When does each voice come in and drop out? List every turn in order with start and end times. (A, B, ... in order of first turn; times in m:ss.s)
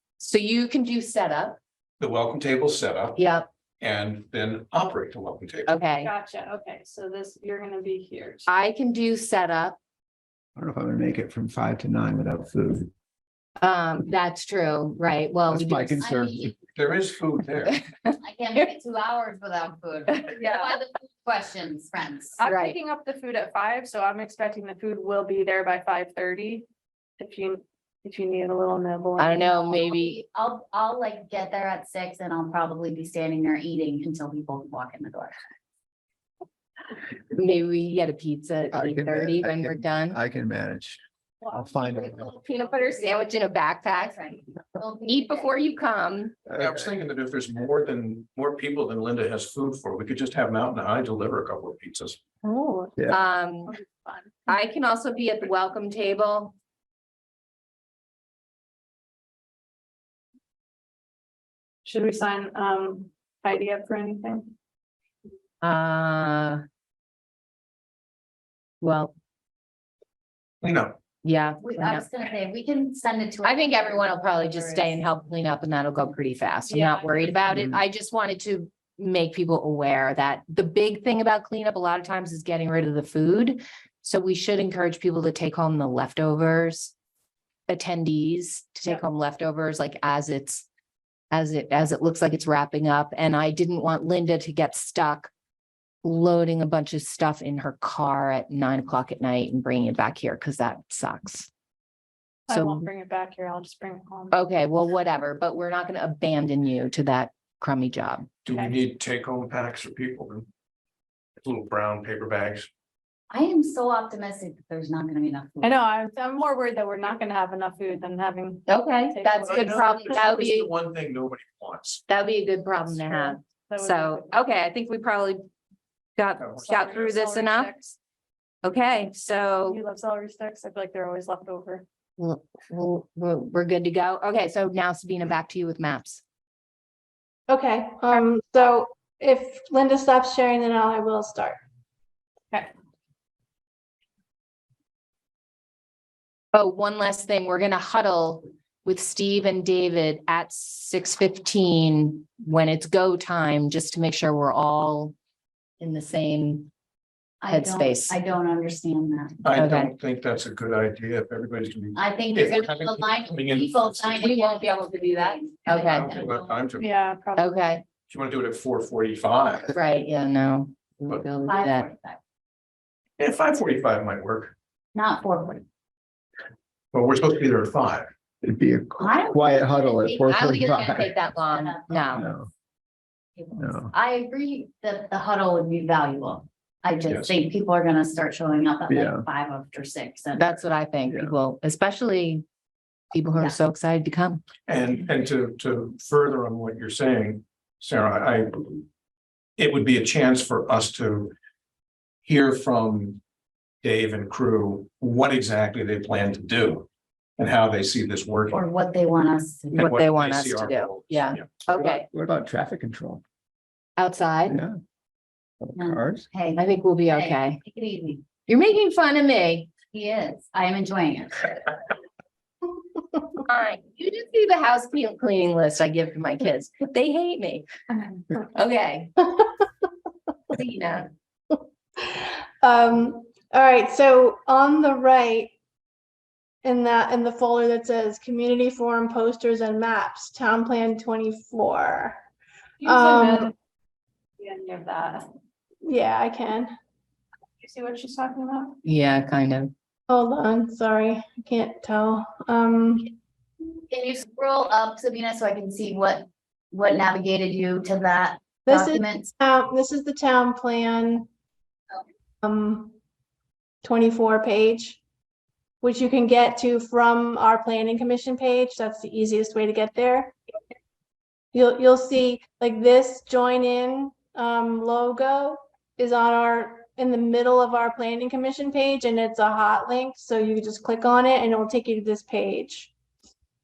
0:00.2-0:01.6 A
0:02.0-0:03.2 B
0:03.2-0:03.5 A
0:03.8-0:05.8 B
0:05.7-0:06.1 A
0:06.0-0:08.5 C
0:08.5-0:09.8 A
0:10.6-0:12.9 D
0:13.6-0:16.0 A
0:15.5-0:16.5 D
0:16.0-0:16.6 E
0:16.8-0:17.8 B
0:18.2-0:22.4 E
0:22.4-0:26.7 C
0:22.4-0:22.8 A
0:27.2-0:29.7 C
0:29.2-0:30.2 A
0:29.7-0:35.5 E
0:37.3-0:40.2 A
0:38.7-0:41.0 D
0:41.4-0:43.3 C
0:41.5-0:42.3 D
0:41.9-0:44.2 A
0:44.0-0:45.6 E
0:45.0-0:46.4 A
0:46.5-0:46.9 D
0:46.6-0:52.2 B
0:52.4-0:53.0 C
0:53.1-0:53.8 A
0:53.7-0:54.4 C
0:54.5-0:56.5 A
1:01.8-1:04.5 C
1:05.6-1:06.6 A
1:08.8-1:09.1 A
1:10.6-1:11.0 B
1:11.2-1:12.1 A
1:11.6-1:15.0 E
1:13.4-1:26.9 A
1:16.7-1:17.4 C
1:27.7-1:30.7 A
1:31.3-1:35.3 A
1:36.0-1:41.5 A
1:42.5-1:44.4 C
1:42.5-1:42.9 A
1:44.3-1:48.3 A
1:48.5-1:50.5 B
1:48.5-1:48.8 C
1:51.4-1:52.7 B
1:53.3-1:55.8 E
1:55.6-2:00.2 C
1:58.7-2:00.7 A
1:59.4-2:02.0 B
2:02.1-2:05.4 A
2:02.9-2:04.4 C
2:06.2-2:07.7 A
2:06.4-2:06.7 B
2:06.6-2:08.0 C
2:08.6-2:09.8 A
2:09.6-2:11.8 C
2:12.2-2:16.2 A
2:17.5-2:21.6 F
2:26.5-2:35.2 A
2:35.8-2:36.7 A
2:37.4-2:39.4 E
2:37.4-2:38.2 A
2:39.4-2:44.3 B
2:39.6-2:39.9 A
2:42.0-2:46.7 E
2:44.2-2:46.1 A
2:45.8-2:46.9 B
2:46.8-2:47.5 C
2:47.4-2:47.8 A
2:48.1-2:49.7 B
2:49.7-2:51.9 A
2:51.5-2:52.2 E
2:53.2-2:54.5 B
2:54.9-2:55.6 E
2:56.9-2:58.1 B
2:58.4-3:01.1 D
2:59.0-3:02.3 E
3:00.2-3:02.2 A
3:02.0-3:02.5 D
3:03.4-3:10.6 E
3:03.6-3:03.9 D
3:07.0-3:07.4 B
3:08.9-3:09.3 D
3:10.4-3:12.4 A
3:11.1-3:11.4 D
3:13.1-3:14.4 A
3:14.7-3:18.7 B
3:19.6-3:21.3 B
3:22.2-3:23.2 B
3:23.8-3:26.9 B
3:27.4-3:28.7 B
3:28.5-3:29.8 E
3:29.7-3:31.6 B
3:29.7-3:32.1 A
3:31.7-3:33.2 D
3:34.0-3:34.6 A
3:34.5-3:34.8 D
3:35.6-3:36.3 D
3:35.8-3:38.2 E
3:36.6-3:37.6 A
3:38.5-3:39.7 A
3:39.9-3:41.5 E
3:43.4-3:47.7 A
3:48.4-3:49.1 A
3:50.5-3:51.1 A
3:52.6-3:55.5 F
3:56.6-4:02.2 F
4:02.8-4:03.5 C
4:02.8-4:03.5 F
4:04.4-4:05.3 C
4:05.8-4:06.7 F
4:07.6-4:08.8 C
4:08.8-4:09.7 A
4:10.1-4:13.2 F
4:13.9-4:19.3 E
4:18.7-4:21.3 F
4:22.4-4:23.0 F
4:23.8-4:25.0 F
4:25.8-4:30.4 F
4:31.5-4:42.9 F